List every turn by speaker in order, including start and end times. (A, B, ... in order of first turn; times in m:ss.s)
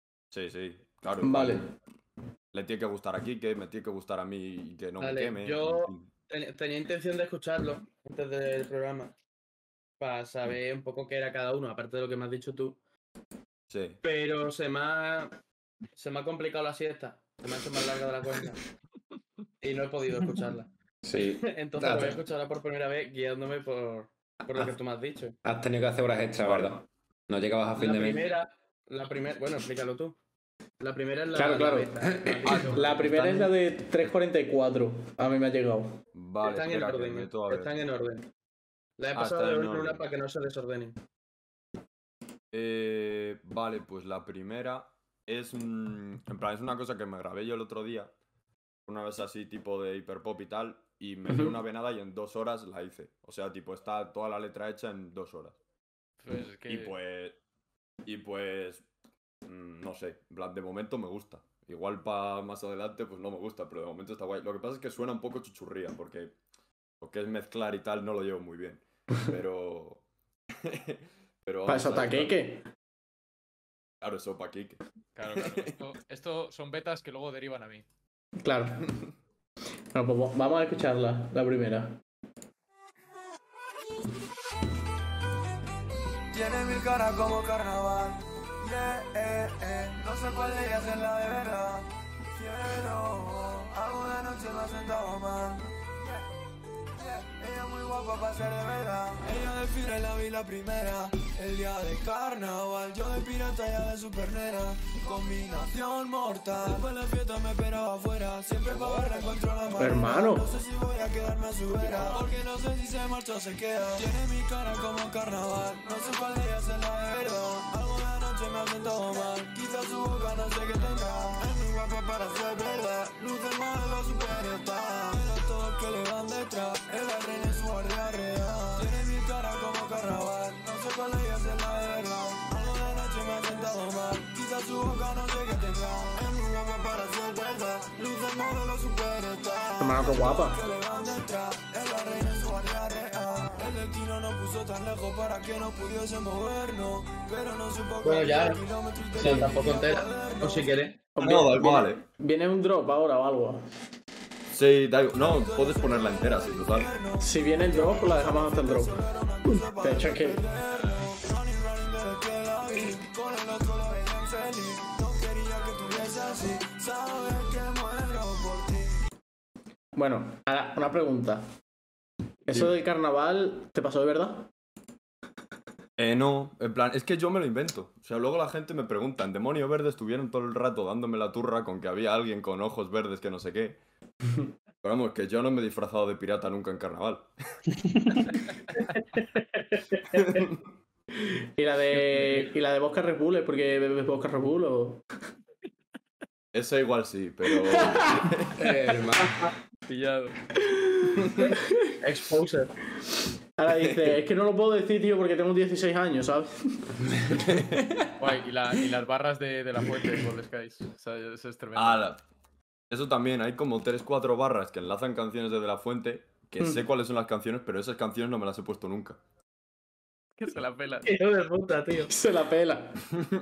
0:00.3-0:01.7 A
0:01.2-0:01.7 B
0:02.5-0:06.1 A
0:05.0-0:09.1 C
0:10.0-0:12.8 C
0:13.7-0:14.0 A
0:14.0-0:15.3 C
0:16.0-0:18.6 C
0:19.6-0:25.4 C
0:21.0-0:22.2 D
0:25.4-0:28.2 D
0:26.4-0:26.8 A
0:27.8-0:30.2 C
0:30.8-0:32.9 C
0:31.3-0:32.0 B
0:32.5-0:33.5 A
0:32.6-0:36.0 B
0:36.1-0:37.7 A
0:36.4-0:38.2 C
0:39.0-0:41.0 C
0:39.2-0:40.0 A
0:42.5-0:48.1 A
0:48.9-0:55.6 A
0:51.3-0:51.6 B
0:56.2-0:57.0 E
0:56.7-0:57.4 A
0:58.0-0:58.9 A
0:59.5-1:06.4 A
1:07.0-1:10.0 A
1:10.6-1:12.4 A
1:11.7-1:12.7 B
1:14.0-1:14.8 A
1:15.2-1:17.8 E
1:15.4-1:15.7 A
1:18.4-1:18.9 B
1:19.9-1:22.0 B
1:26.3-1:35.7 F
1:36.9-2:30.8 F
1:49.8-1:50.5 B
2:19.8-2:20.6 B
2:28.0-2:28.6 C
2:29.2-2:31.0 C
2:29.2-2:29.5 B
2:31.2-2:33.6 B
2:31.2-2:32.0 A
2:34.5-2:36.9 A
2:35.1-2:49.0 F
2:37.2-2:40.4 B
2:49.9-2:51.5 B
2:52.5-2:54.5 B
2:56.0-3:03.8 A
3:04.8-3:07.3 A
3:10.2-3:10.6 A
3:11.2-3:15.0 B
3:12.0-3:12.5 E
3:16.5-3:18.6 A
3:17.7-3:17.9 B
3:18.6-3:19.4 D
3:19.9-3:20.4 E
3:20.7-3:21.1 B
3:22.0-3:22.7 C
3:23.6-3:26.9 B
3:27.4-3:28.0 D
3:28.2-3:32.1 E
3:31.8-3:32.2 A
3:32.9-3:39.2 A
3:40.4-3:41.1 E
3:41.0-3:42.1 C
3:42.1-3:43.1 B